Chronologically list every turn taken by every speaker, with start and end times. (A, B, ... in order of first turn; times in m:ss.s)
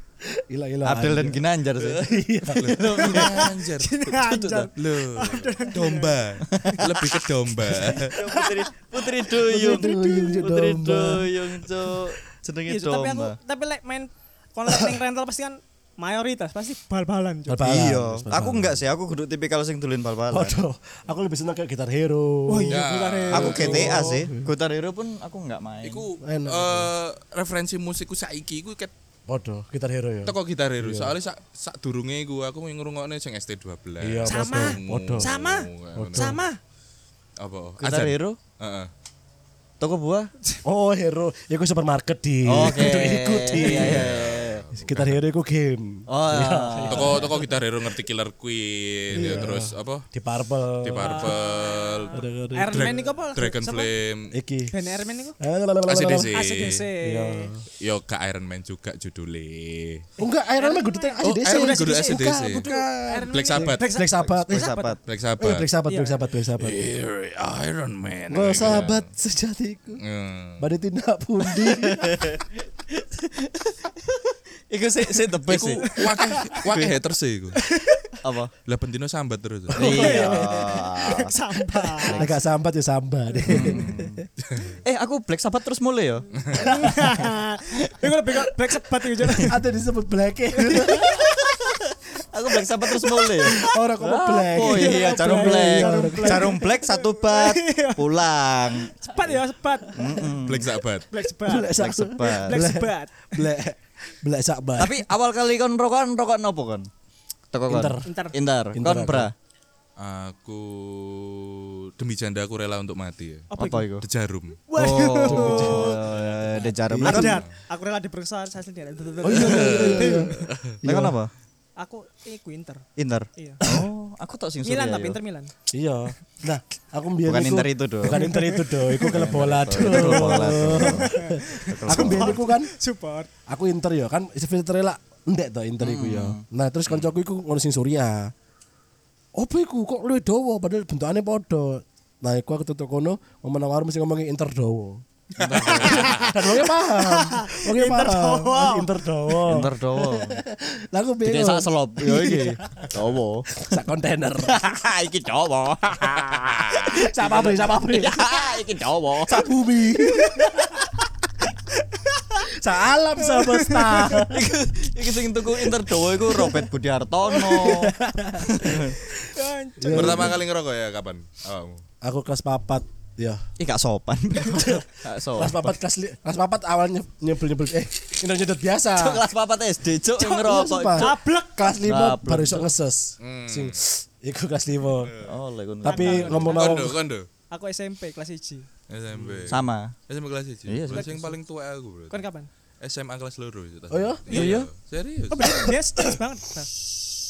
0:00.4-0:03.4 A
0:00.8-0:02.0 B
0:02.5-0:04.2 C
0:02.7-0:03.5 B
0:03.8-0:06.2 D
0:04.2-0:04.7 B
0:04.7-0:08.2 C
0:06.5-0:07.2 B
0:07.9-0:08.6 D
0:08.0-0:13.3 B
0:09.4-0:12.0 A
0:09.5-0:10.4 D
0:12.7-0:17.6 D
0:17.5-0:18.8 A
0:17.6-0:20.6 B
0:20.3-0:22.8 A
0:22.5-0:24.1 D
0:22.7-0:24.1 C
0:23.3-0:26.0 B
0:23.4-0:24.5 A
0:25.8-0:28.9 C
0:26.2-0:26.9 A
0:29.3-0:31.1 A
0:30.2-0:36.4 C
0:34.0-0:35.3 A
0:34.3-0:36.6 D
0:36.0-0:36.4 A
0:37.4-0:38.9 C
0:37.8-0:38.4 B
0:39.8-0:40.3 B
0:40.6-0:44.1 A
0:42.4-0:44.6 B
0:43.6-0:45.2 C
0:44.8-0:47.3 A
0:46.1-0:47.3 B
0:46.9-0:50.0 C
0:49.1-0:51.3 A
0:50.8-0:54.3 C
0:51.0-0:53.9 D
0:52.1-0:53.0 A
0:54.3-0:54.7 A
0:54.7-0:55.4 D
0:55.4-0:56.3 A
0:55.8-0:56.8 C
0:56.3-0:57.5 D
0:57.0-0:57.6 A
0:57.8-1:00.0 C
1:00.2-1:04.7 A
1:00.2-1:05.0 D
1:01.2-1:02.7 C
1:03.3-1:03.8 C
1:04.2-1:05.0 B
1:05.1-1:05.6 C
1:05.4-1:06.8 A
1:05.9-1:06.2 D
1:06.6-1:09.1 C
1:08.3-1:10.0 A
1:10.0-1:10.6 C
1:10.6-1:12.2 A
1:11.6-1:12.4 B
1:13.2-1:13.7 A
1:14.7-1:15.9 B
1:15.0-1:15.4 A
1:15.5-1:17.6 C
1:15.8-1:16.6 D
1:16.2-1:16.6 A
1:16.6-1:17.0 B
1:17.6-1:18.2 D
1:18.2-1:18.5 B
1:18.6-1:20.1 C
1:19.7-1:21.3 B
1:19.8-1:22.2 D
1:19.8-1:20.8 A
1:22.0-1:22.4 B
1:22.1-1:24.3 A
1:23.5-1:24.2 B
1:23.5-1:23.8 D
1:24.4-1:24.8 C
1:24.8-1:26.9 B
1:26.6-1:29.6 D
1:26.6-1:27.1 A
1:29.4-1:31.4 A
1:30.7-1:31.0 D
1:31.3-1:31.7 B
1:32.3-1:39.0 B
1:33.4-1:36.6 A
1:34.6-1:38.0 D
1:39.0-1:40.2 D
1:39.9-1:40.7 B
1:40.4-1:41.0 C
1:41.1-1:43.4 D
1:41.4-1:45.0 A
1:41.6-1:42.6 B
1:44.8-1:46.9 B
1:47.5-1:49.3 B
1:47.7-1:48.1 A
1:48.0-1:48.3 D
1:48.7-1:49.3 A
1:50.0-1:54.6 C
1:53.5-1:53.9 D
1:53.5-1:54.0 B
1:54.7-1:56.0 D
1:54.8-1:57.4 B
1:55.2-1:57.4 A
1:57.0-2:00.2 D
1:59.2-2:01.2 A
1:59.4-2:00.7 C
2:00.8-2:01.3 B
2:01.8-2:02.8 D
2:03.0-2:05.2 B
2:04.6-2:05.5 D
2:05.7-2:11.3 A
2:07.2-2:08.4 B
2:08.1-2:09.1 D
2:09.0-2:12.4 B
2:09.8-2:13.3 D
2:11.9-2:12.7 A
2:13.5-2:18.3 A
2:15.8-2:16.4 B
2:19.4-2:25.0 A
2:25.4-2:26.5 B
2:25.5-2:26.3 C
2:25.6-2:26.1 D
2:25.8-2:32.9 A
2:26.8-2:28.9 D
2:29.4-2:30.4 B
2:31.2-2:33.5 B
2:33.6-2:34.6 A
2:34.4-2:39.4 B
2:36.9-2:38.2 A
2:39.2-2:40.8 A
2:40.3-2:40.6 D
2:41.5-2:42.4 D
2:42.6-2:44.4 A
2:43.2-2:44.2 D
2:44.2-2:49.0 B
2:47.3-2:47.8 D
2:47.4-2:49.1 A
2:49.3-2:50.4 D
2:49.8-2:50.4 A
2:49.9-2:51.8 C
2:52.0-2:53.4 A
2:53.6-2:55.7 B
2:54.5-2:59.2 A
2:59.0-3:01.1 B
3:00.2-3:05.2 A
3:00.9-3:01.8 D
3:01.8-3:02.7 B
3:03.2-3:03.8 C
3:04.9-3:05.3 C
3:05.2-3:06.5 B
3:05.8-3:07.0 A
3:05.8-3:06.8 D
3:06.5-3:07.3 C
3:07.5-3:08.7 D
3:08.9-3:12.2 C
3:09.5-3:09.9 B
3:10.6-3:11.3 B
3:12.1-3:12.5 D
3:12.8-3:15.7 C
3:13.9-3:14.7 A
3:14.3-3:14.6 D
3:14.3-3:14.7 B
3:15.3-3:16.7 D